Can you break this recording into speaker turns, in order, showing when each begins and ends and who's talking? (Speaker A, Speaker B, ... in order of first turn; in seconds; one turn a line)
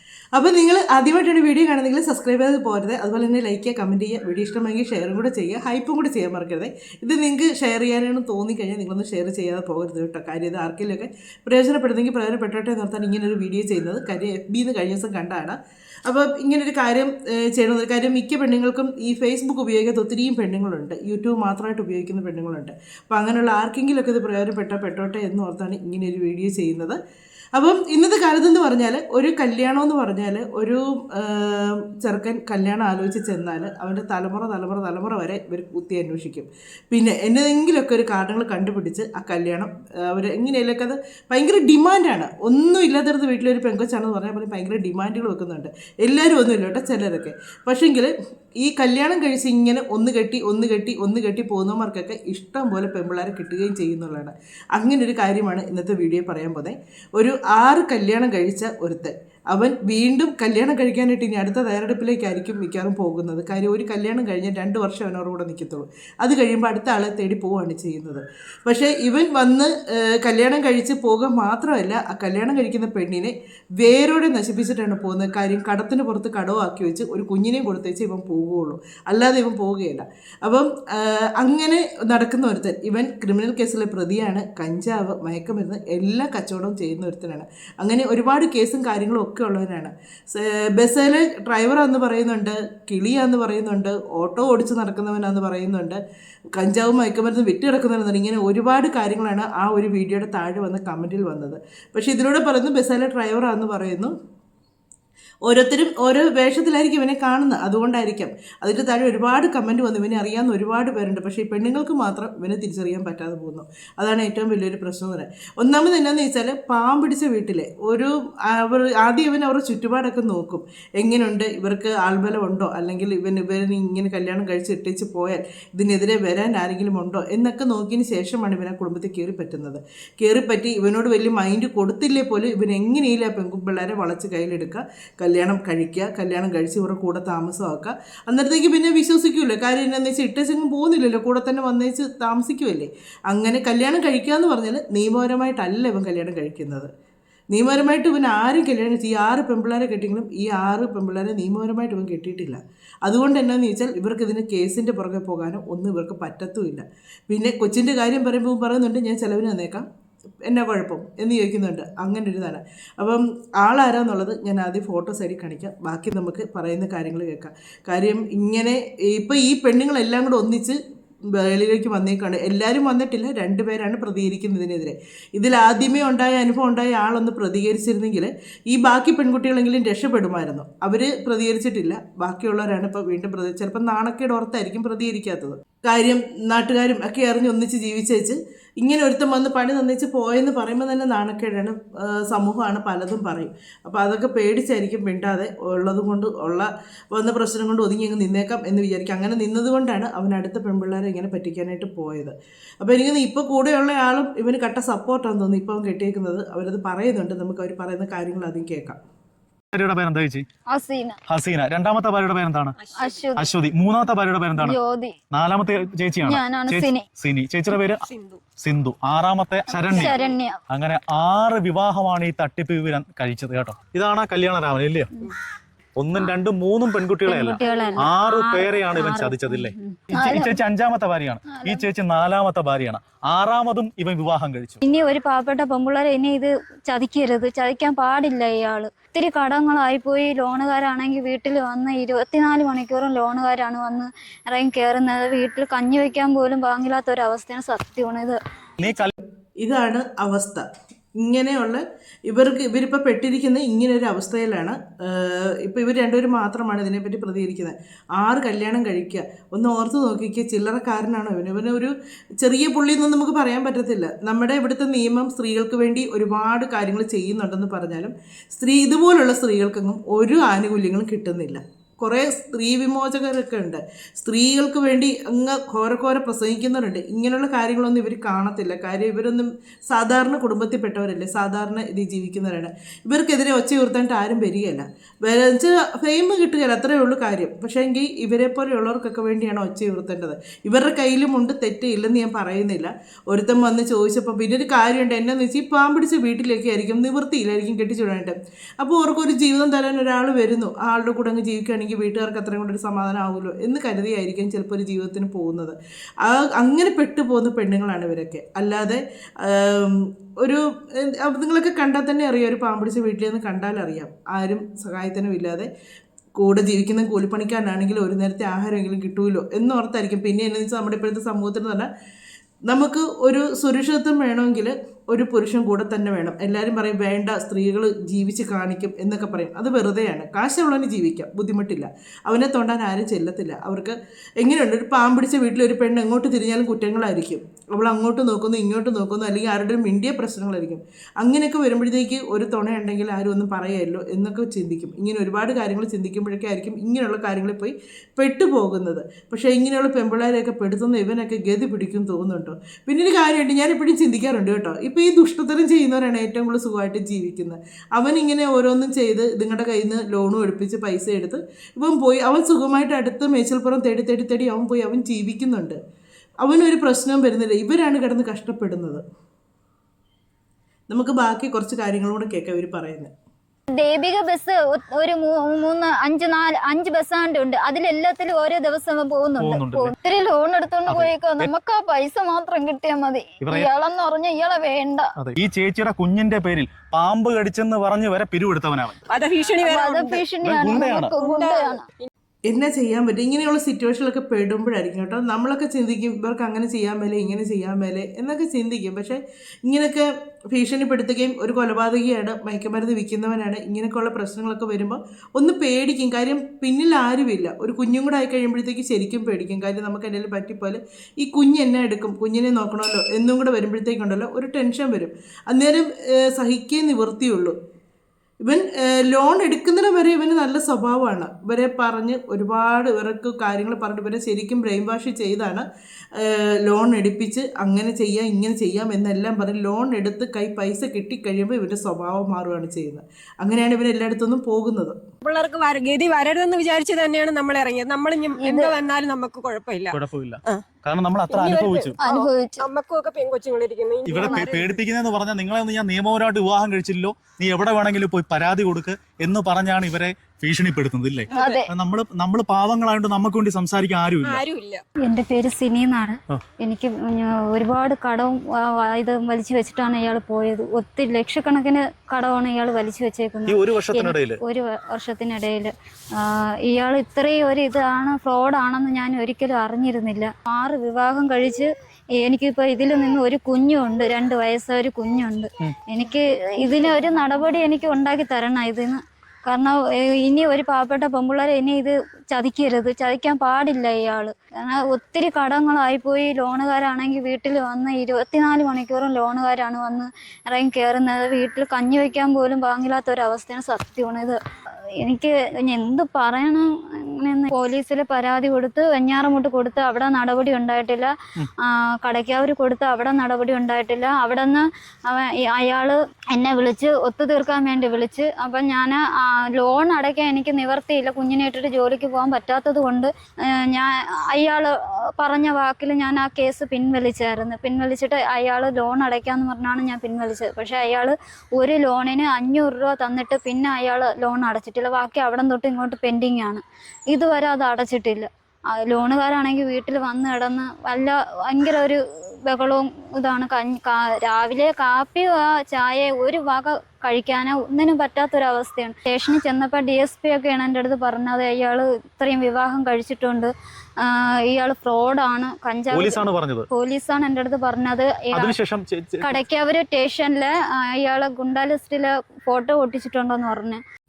Speaker A: 0.3-15.6
Speaker A: 16.1-27.0
Speaker A: 27.6-96.0
Speaker A: 96.5-104.1
Speaker A: 105.5-146.9
Speaker A: 147.5-159.9
Speaker A: 160.4-170.8
Speaker A: 171.3-209.0
Speaker B: 209.7-210.4
Speaker C: 210.7-211.2
Speaker B: 211.3-212.8
Speaker D: 212.8-213.4
Speaker C: 213.0-213.5
Speaker B: 213.4-214.8
Speaker C: 214.6-215.2
Speaker B: 215.3-218.0
Speaker C: 216.2-217.1
Speaker D: 218.0-218.4
Speaker B: 218.6-220.2
Speaker C: 219.7-220.6
Speaker D: 219.9-220.3
Speaker B: 220.7-225.1
Speaker B: 226.0-234.8
Speaker C: 227.2-230.6
Speaker D: 227.7-228.0
Speaker C: 231.5-231.8
Speaker C: 234.8-248.4
Speaker B: 248.8-249.1
Speaker A: 249.6-250.7
Speaker A: 251.2-315.7
Speaker A: 316.4-321.9
Speaker A: 322.7-365.8
Speaker A: 366.4-369.0
Speaker A: 370.9-373.1
Speaker C: 373.7-385.1
Speaker B: 379.4-379.9
Speaker B: 380.9-381.5
Speaker B: 383.4-383.7
Speaker B: 385.2-389.0
Speaker D: 389.1-392.1
Speaker C: 389.6-391.9
Speaker B: 390.4-391.2
Speaker A: 392.5-417.6
Speaker A: 418.4-425.7
Speaker A: 426.2-435.0
Speaker D: 435.2-440.6
Speaker C: 438.4-438.7
Speaker B: 439.9-442.0
Speaker D: 441.3-444.8
Speaker C: 442.0-442.7
Speaker B: 444.1-454.4
Speaker D: 451.3-451.6
Speaker C: 451.4-451.7
Speaker D: 454.2-454.8
Speaker C: 455.0-494.4
Speaker B: 463.5-464.4
Speaker C: 495.0-528.3
Speaker C: 528.8-548.6
Speaker B: 545.9-546.7
Speaker B: 548.3-549.4
Speaker C: 549.2-553.8